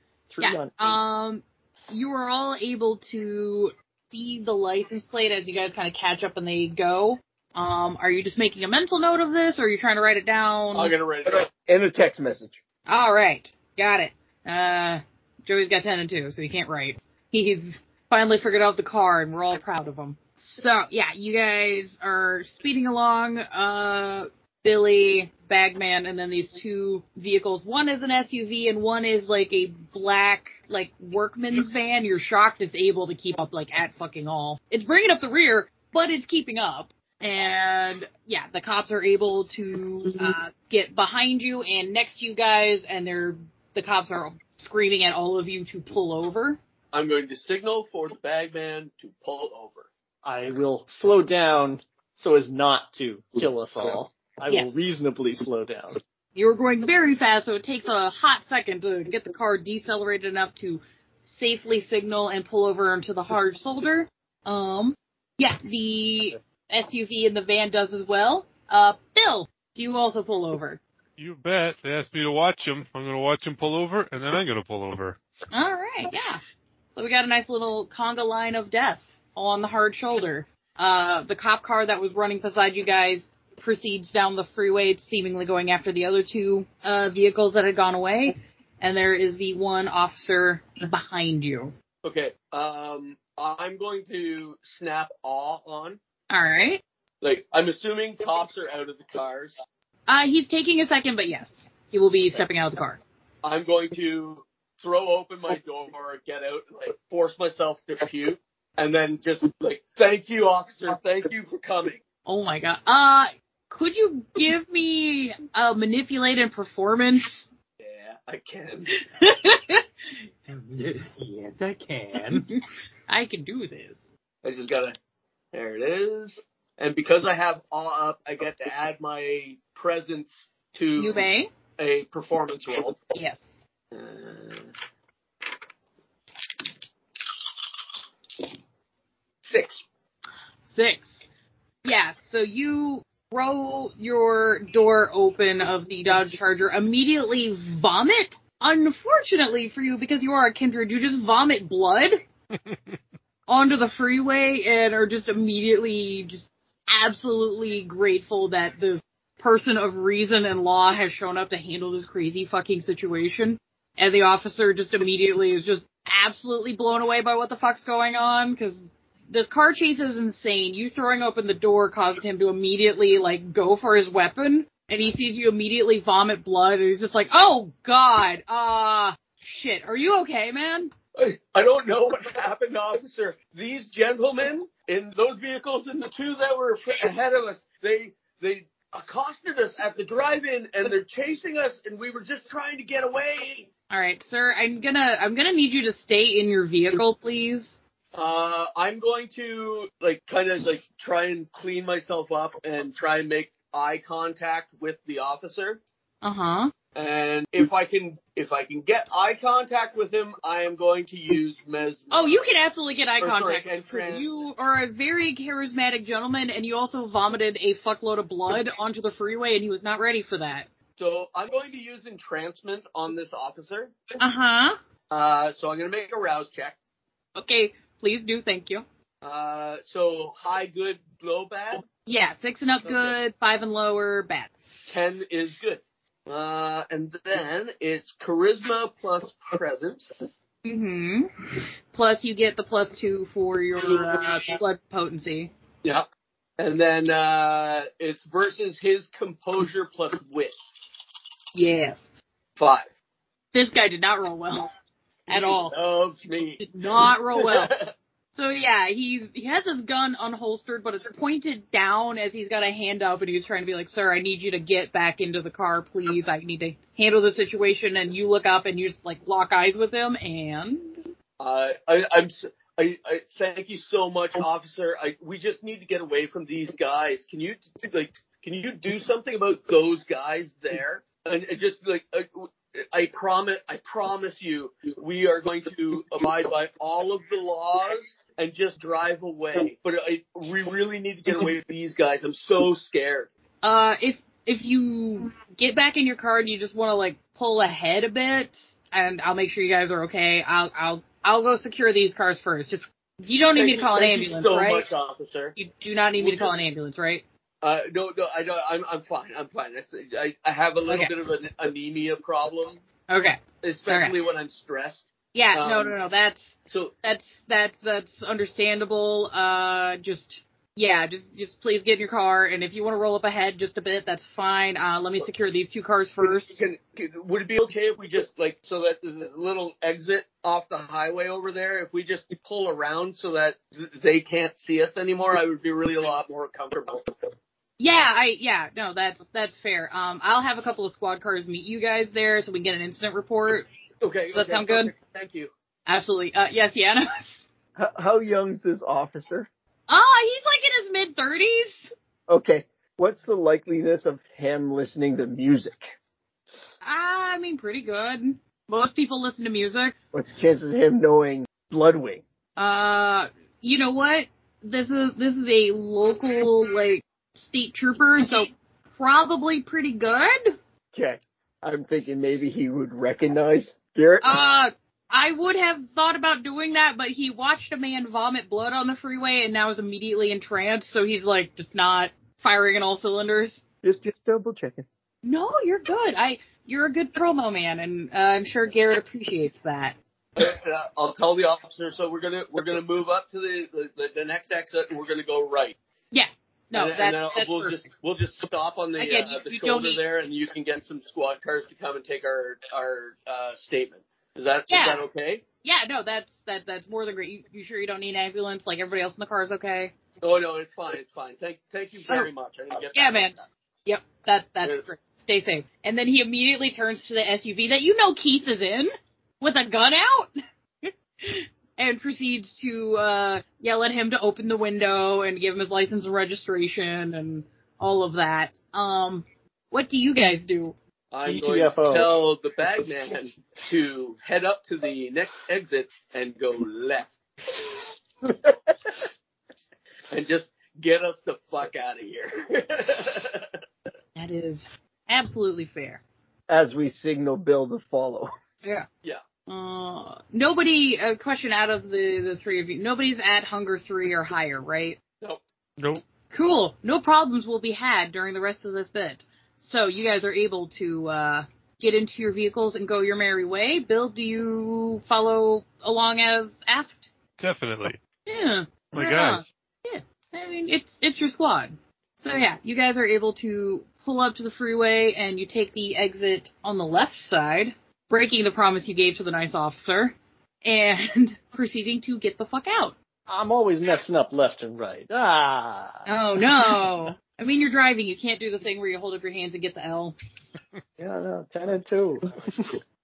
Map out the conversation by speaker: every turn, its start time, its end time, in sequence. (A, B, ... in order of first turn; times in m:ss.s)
0:00.3-0:01.0 A
0:00.4-0:10.9 B
0:10.7-0:11.5 C
0:11.3-0:12.6 D
0:12.9-0:46.6 B
0:46.9-0:49.9 C
0:50.2-0:56.0 A
0:56.4-1:10.8 B
1:11.2-1:15.2 E
1:15.5-1:16.4 B
1:16.9-1:31.7 B
1:32.0-1:36.0 C
1:36.3-1:36.8 B
1:37.2-1:39.6 C
1:40.1-1:43.0 B
1:43.4-1:52.0 C
1:52.3-1:57.5 B
1:57.8-1:58.9 C
1:59.2-1:59.8 B
2:00.5-2:02.5 F
2:02.3-2:04.0 B
2:04.4-2:05.0 C
2:05.5-2:13.0 C
2:11.0-2:11.5 B
2:13.1-2:13.6 B
2:13.9-2:14.7 C
2:19.5-2:19.8 C
2:20.6-2:21.2 B
2:21.8-2:32.2 B
2:33.5-3:00.9 B
3:01.2-3:13.7 C
3:13.9-3:17.8 B
3:18.1-3:25.8 C
3:26.2-3:26.7 B
3:27.0-3:32.4 C
3:32.1-3:40.7 B
3:33.2-3:34.3 C
3:41.0-3:44.0 C
3:44.2-3:44.8 B
3:45.1-3:46.8 C
3:47.4-3:48.8 B
3:49.2-3:51.9 C
3:52.1-3:54.5 B
3:52.8-3:53.1 C
3:54.9-4:00.2 C
4:00.6-4:01.3 B
4:01.9-4:05.5 B
4:06.6-4:10.6 C
4:11.5-4:12.1 B
4:12.6-4:12.9 C
4:13.5-4:14.7 B
4:15.3-4:15.8 B
4:15.3-4:17.9 C
4:16.6-4:17.7 B
4:18.3-4:31.0 B
4:31.4-4:53.3 C
4:53.6-5:04.9 B
5:03.6-5:05.6 C
5:05.6-5:07.2 B
5:06.2-5:06.6 C
5:07.6-5:12.8 C
5:10.9-5:11.1 B
5:13.1-5:14.2 B
5:13.6-5:16.0 C
5:15.3-5:26.6 B
5:16.7-5:16.9 C
5:26.5-5:37.1 C
5:37.8-5:43.7 B
5:44.0-5:45.5 C
5:44.3-5:44.9 B
5:45.9-5:47.5 B
5:47.8-5:49.5 D
5:49.9-5:51.9 B
5:52.3-5:56.0 D
5:56.8-6:00.0 B
6:00.1-6:02.2 D
6:02.6-6:10.6 B
6:10.9-6:14.4 D
6:14.2-6:23.6 B
6:23.8-6:24.9 D
6:25.2-6:30.0 B
6:30.4-6:35.8 C
6:36.1-6:37.8 B
6:36.8-6:45.4 C
6:39.0-6:40.0 B
6:44.7-6:45.0 B
6:45.6-6:50.0 B
6:50.2-6:53.3 C
6:52.9-7:00.3 B
7:00.8-7:10.8 B
7:11.1-7:17.1 C
7:11.2-7:12.2 A
7:20.1-7:23.5 C
7:24.2-7:26.0 B
7:26.5-7:28.3 D
7:29.5-7:35.0 B
7:36.3-7:47.1 B
7:47.4-7:48.0 E
7:48.3-8:03.0 B
7:48.9-7:49.4 E
8:03.3-8:06.1 A
8:06.1-8:10.2 B
8:06.6-8:06.8 A
8:11.0-8:12.8 A